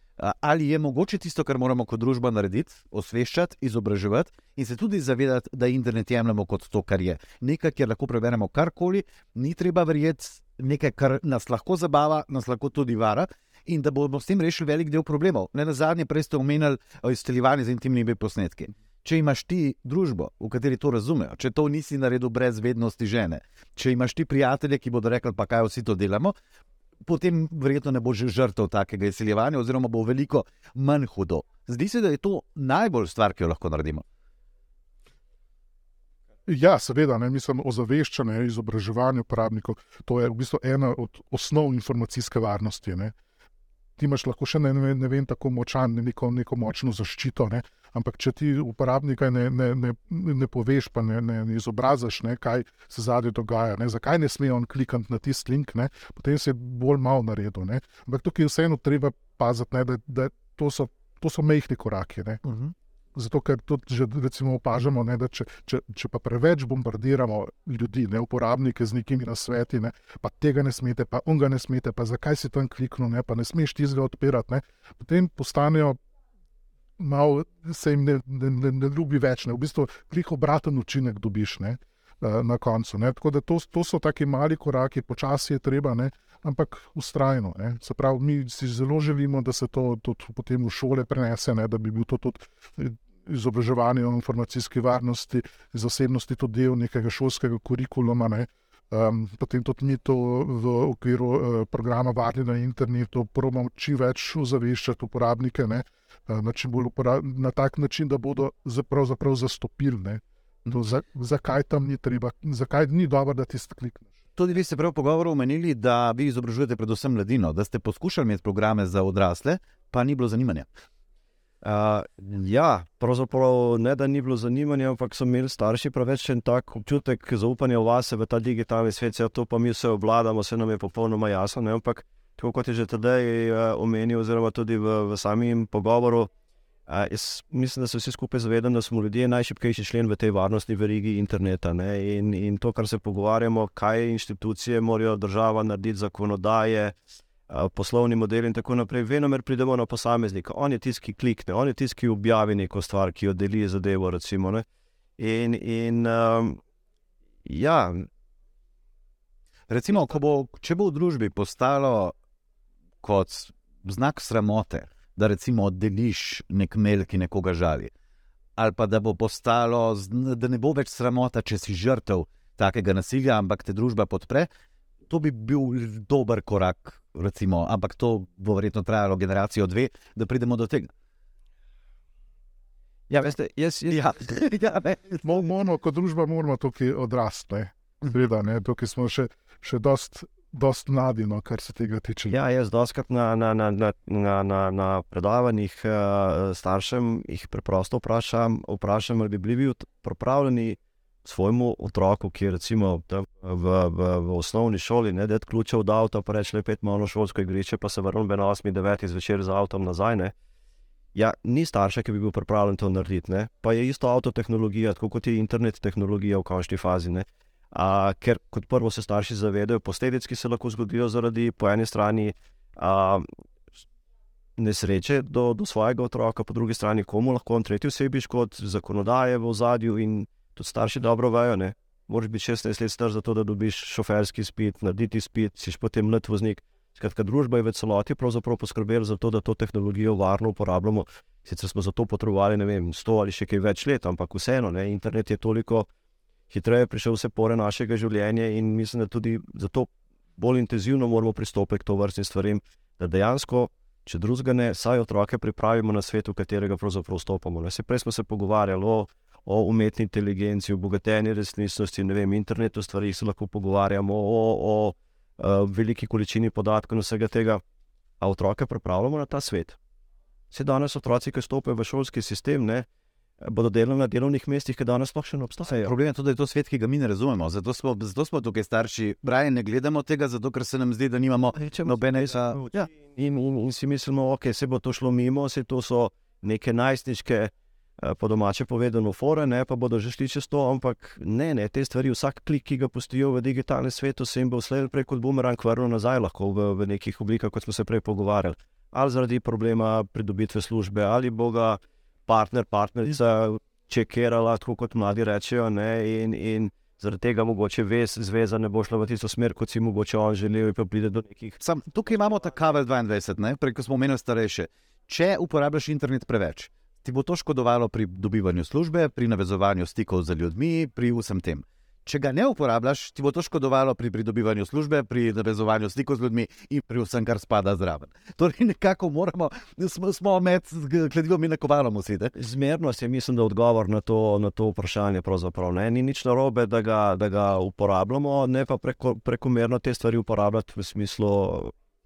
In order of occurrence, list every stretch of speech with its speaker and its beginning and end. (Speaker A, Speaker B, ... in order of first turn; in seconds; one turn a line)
Speaker A: 0.2-26.3
Speaker A: 27.1-34.0
Speaker B: 36.5-43.1
Speaker B: 44.0-62.4
Speaker A: 62.4-62.7
Speaker B: 63.1-76.0
Speaker B: 77.0-114.1
Speaker A: 114.4-120.7
Speaker C: 121.6-136.3
Speaker C: 136.9-147.0
Speaker C: 147.5-154.6
Speaker C: 155.2-156.6
Speaker C: 157.4-158.1
Speaker A: 159.7-162.1
Speaker A: 163.0-167.9
Speaker A: 168.6-174.5
Speaker A: 175.1-180.9
Speaker C: 183.1-185.2
Speaker A: 183.9-184.6
Speaker B: 185.2-192.4
Speaker C: 192.3-210.3
Speaker C: 211.1-223.3
Speaker C: 224.6-245.9
Speaker C: 246.5-267.6
Speaker C: 268.2-269.8
Speaker C: 270.5-272.9
Speaker C: 273.4-275.9
Speaker A: 275.7-282.6
Speaker C: 281.6-312.1
Speaker A: 311.6-332.3
Speaker C: 332.3-341.7